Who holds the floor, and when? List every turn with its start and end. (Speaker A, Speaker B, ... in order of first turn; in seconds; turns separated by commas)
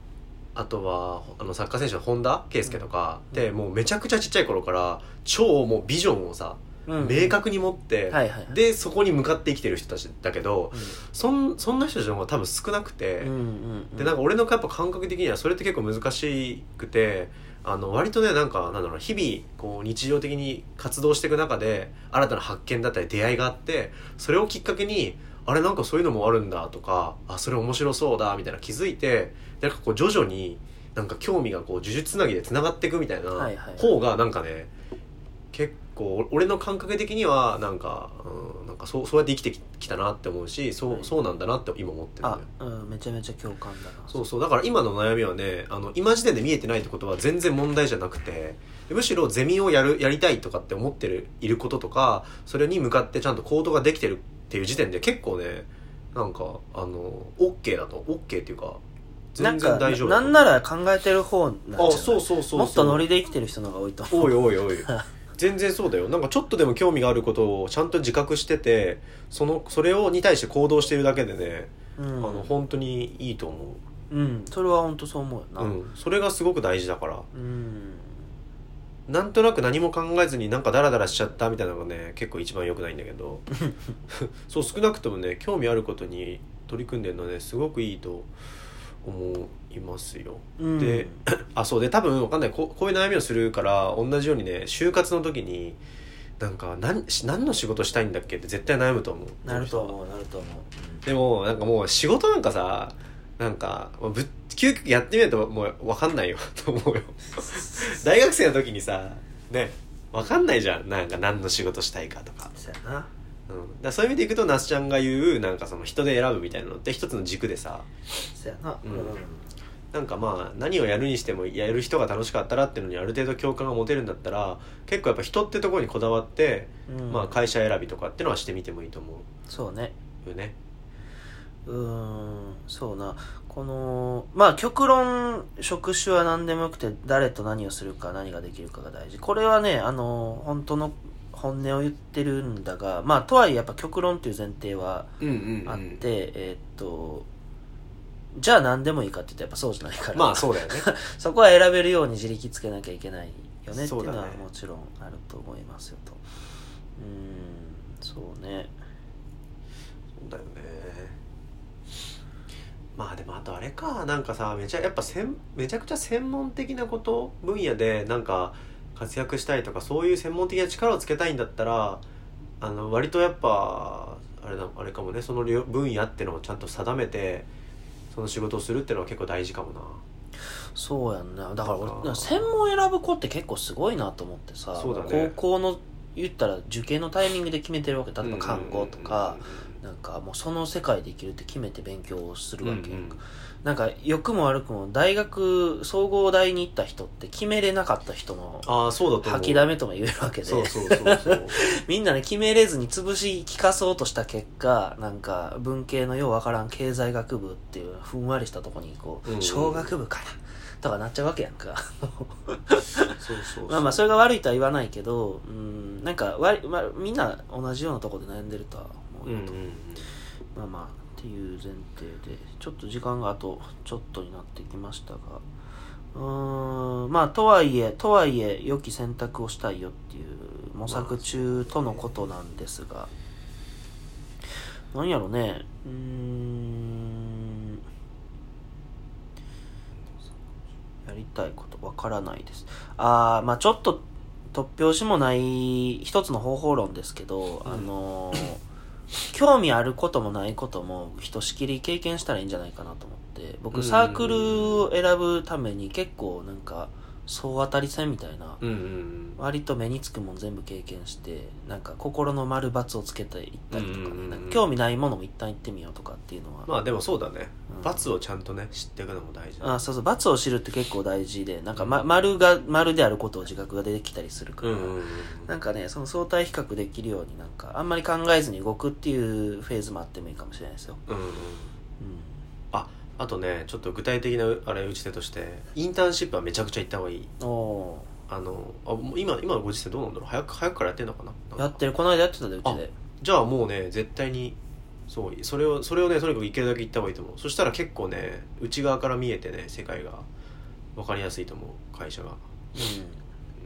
Speaker A: 0.5-13.3, Speaker B: 2.6-3.4, Speaker B: 6.9-7.4, Speaker B: 8.1-8.6, Speaker B: 10.7-11.0, Speaker B: 13.2-14.2, Speaker A: 14.0-34.7, Speaker B: 33.3-33.9, Speaker A: 35.5-42.5, Speaker B: 42.2-44.2, Speaker A: 44.1-58.8, Speaker A: 59.3-60.4, Speaker B: 59.4-65.0, Speaker A: 61.8-63.0, Speaker A: 64.1-73.8, Speaker B: 72.0-72.5, Speaker B: 74.1-75.8, Speaker A: 75.6-77.3, Speaker B: 77.3-78.2, Speaker A: 79.1-83.5, Speaker A: 84.1-88.3, Speaker A: 89.0-95.8, Speaker B: 90.6-91.2, Speaker A: 96.4-99.9, Speaker B: 99.4-101.0, Speaker A: 101.0-112.5, Speaker B: 107.4-107.9, Speaker B: 112.5-113.1, Speaker A: 113.5-117.9, Speaker B: 118.2-119.5, Speaker A: 118.8-119.2, Speaker A: 119.9-129.2, Speaker B: 126.9-127.4, Speaker B: 129.5-129.9, Speaker A: 130.2-130.5, Speaker B: 131.7-145.1, Speaker A: 145.2-146.0, Speaker B: 145.6-147.2, Speaker B: 148.3-156.2, Speaker A: 150.1-150.9, Speaker A: 153.7-154.4, Speaker B: 157.0-158.7, Speaker A: 160.2-161.2, Speaker A: 162.9-172.0, Speaker A: 172.6-177.5, Speaker A: 178.1-180.0, Speaker B: 180.7-219.6, Speaker A: 181.6-182.4, Speaker A: 184.7-185.3, Speaker A: 188.2-189.8, Speaker A: 192.6-193.2, Speaker A: 198.6-199.7, Speaker A: 200.4-201.6, Speaker A: 209.2-209.9, Speaker A: 213.2-214.1, Speaker A: 219.2-220.1, Speaker B: 220.5-225.4, Speaker B: 226.1-233.1, Speaker A: 230.9-232.1, Speaker B: 234.9-237.8, Speaker B: 241.1-248.6, Speaker A: 247.6-247.9, Speaker B: 249.3-258.6, Speaker A: 253.7-254.8, Speaker A: 258.6-259.4, Speaker B: 259.4-266.7, Speaker A: 263.7-264.6, Speaker A: 266.6-269.8, Speaker B: 267.7-268.1, Speaker B: 269.6-281.0, Speaker A: 271.8-272.1, Speaker A: 274.6-275.5, Speaker A: 281.1-281.7, Speaker B: 282.0-282.4, Speaker A: 282.7-287.3, Speaker B: 287.4-288.1, Speaker A: 288.3-291.8, Speaker B: 291.6-292.9, Speaker A: 292.6-294.6, Speaker A: 295.1-300.2, Speaker A: 300.9-302.4, Speaker B: 302.7-303.2